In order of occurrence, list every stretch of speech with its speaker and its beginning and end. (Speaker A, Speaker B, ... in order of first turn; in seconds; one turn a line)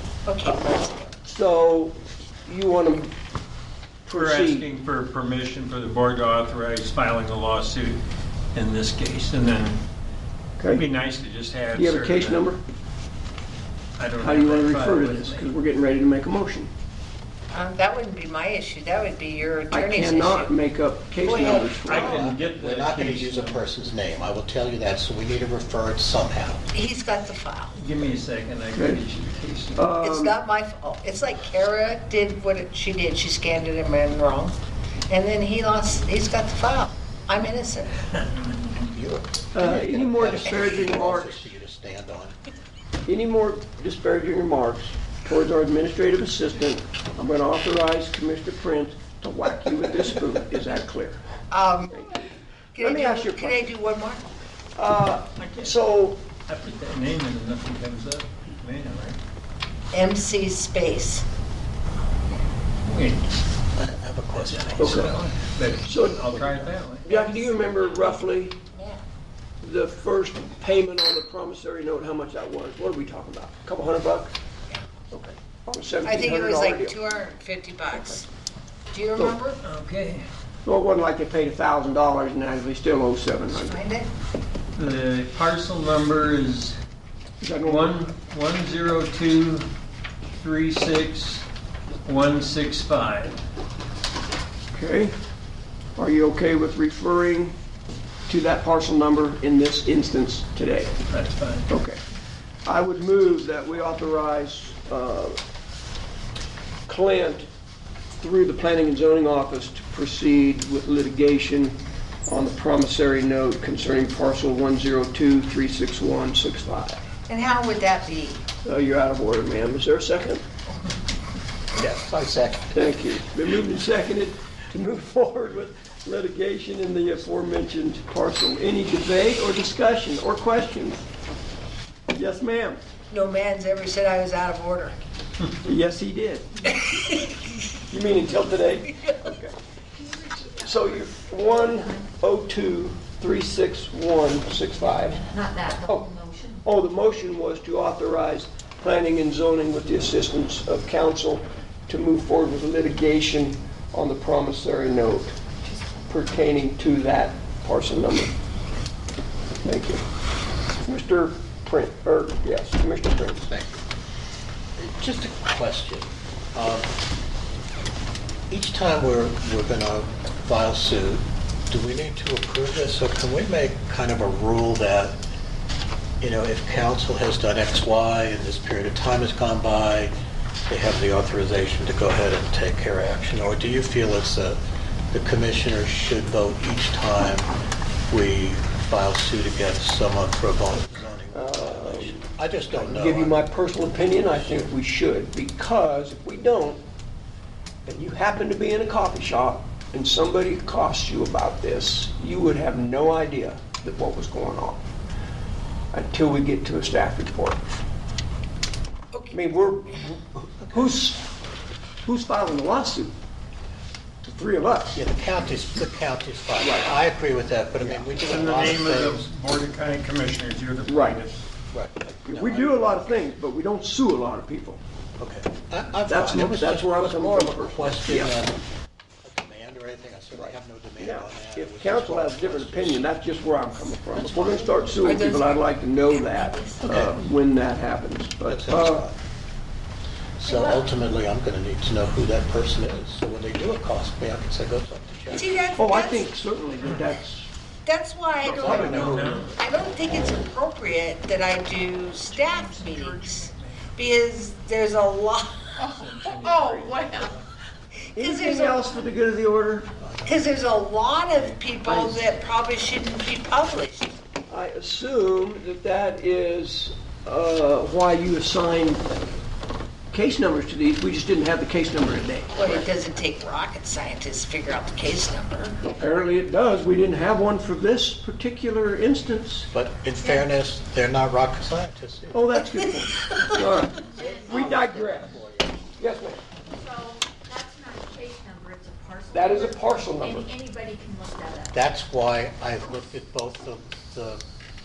Speaker A: 0.3-1.2
Speaker B: 1.3-3.1
Speaker B: 4.1-4.7
Speaker C: 4.1-8.0
Speaker C: 8.5-9.8
Speaker B: 10.6-10.8
Speaker C: 10.7-12.5
Speaker B: 11.8-12.6
Speaker C: 14.0-15.6
Speaker B: 14.2-16.7
Speaker A: 17.5-20.6
Speaker B: 19.7-22.1
Speaker A: 21.2-22.3
Speaker C: 21.9-23.6
Speaker D: 21.9-26.6
Speaker A: 26.7-27.7
Speaker C: 27.7-29.9
Speaker B: 28.7-29.0
Speaker B: 29.8-30.4
Speaker A: 30.0-34.6
Speaker A: 35.1-38.0
Speaker D: 38.8-42.4
Speaker B: 39.5-41.5
Speaker B: 43.1-51.2
Speaker A: 51.5-52.2
Speaker A: 52.8-54.2
Speaker B: 52.8-53.7
Speaker B: 54.8-56.2
Speaker C: 55.4-55.8
Speaker C: 56.5-59.2
Speaker A: 59.9-61.2
Speaker C: 62.9-63.4
Speaker D: 63.8-65.3
Speaker C: 64.3-67.1
Speaker B: 64.8-65.1
Speaker B: 65.9-66.3
Speaker D: 66.3-66.7
Speaker B: 67.0-68.6
Speaker A: 67.1-68.2
Speaker A: 68.7-69.0
Speaker B: 69.6-74.3
Speaker B: 75.1-77.0
Speaker A: 76.0-78.3
Speaker A: 78.9-79.6
Speaker C: 79.6-80.3
Speaker B: 80.7-83.8
Speaker A: 83.5-84.1
Speaker C: 84.8-86.8
Speaker B: 87.4-88.1
Speaker C: 87.6-89.7
Speaker C: 90.3-91.5
Speaker C: 92.0-93.4
Speaker B: 94.7-95.2
Speaker B: 96.0-97.6
Speaker B: 98.3-101.0
Speaker C: 101.0-101.7
Speaker B: 101.7-102.0
Speaker B: 102.7-105.4
Speaker B: 106.9-107.5
Speaker B: 108.2-117.0
Speaker A: 117.3-118.4
Speaker B: 118.7-120.4
Speaker D: 121.8-122.7
Speaker B: 122.7-131.1
Speaker B: 132.1-132.8
Speaker A: 133.1-135.0
Speaker B: 135.6-136.8
Speaker A: 136.7-137.4
Speaker B: 137.9-139.6
Speaker E: 140.0-142.2
Speaker B: 140.5-146.1
Speaker E: 144.7-146.7
Speaker B: 146.7-155.5
Speaker E: 155.6-156.0
Speaker B: 156.1-158.3
Speaker B: 159.6-160.0
Speaker B: 160.8-163.4
Speaker D: 163.3-163.8
Speaker D: 164.8-166.9
Speaker D: 168.5-175.2
Speaker D: 176.2-180.1
Speaker D: 180.7-184.6
Speaker D: 185.1-187.5
Speaker D: 188.1-193.5
Speaker B: 191.3-192.2
Speaker B: 192.7-196.8
Speaker D: 194.1-194.4
Speaker B: 197.9-204.8
Speaker B: 205.9-207.8
Speaker A: 209.1-209.6
Speaker B: 209.3-211.3
Speaker B: 212.0-213.1
Speaker B: 214.2-215.0
Speaker D: 214.9-219.3
Speaker B: 216.6-216.9
Speaker B: 217.8-218.1
Speaker C: 218.2-221.5
Speaker B: 220.9-221.2
Speaker D: 221.7-223.0
Speaker B: 222.3-224.8
Speaker D: 225.2-228.6
Speaker B: 226.1-228.4
Speaker D: 229.2-233.2
Speaker B: 230.3-239.1
Speaker A: 234.2-236.8
Speaker D: 236.8-237.2
Speaker D: 238.5-239.2
Speaker D: 240.4-245.7
Speaker A: 245.3-246.3
Speaker B: 245.8-247.5
Speaker A: 247.8-255.8
Speaker D: 248.4-249.5
Speaker B: 248.4-249.4
Speaker C: 248.8-249.6
Speaker C: 252.4-253.9
Speaker C: 255.8-257.4
Speaker A: 258.2-259.0
Speaker B: 258.2-259.9
Speaker D: 260.0-260.5
Speaker A: 260.3-264.2
Speaker B: 261.8-262.4
Speaker B: 264.5-269.1
Speaker B: 270.1-272.9
Speaker A: 272.5-275.8
Speaker B: 275.8-279.7
Speaker D: 279.7-282.4
Speaker E: 280.2-280.5
Speaker B: 282.3-285.4
Speaker A: 282.6-283.6
Speaker E: 283.9-284.9
Speaker D: 284.1-285.8
Speaker B: 286.0-286.4
Speaker E: 286.7-291.8
Speaker B: 289.3-290.5
Speaker D: 291.7-294.4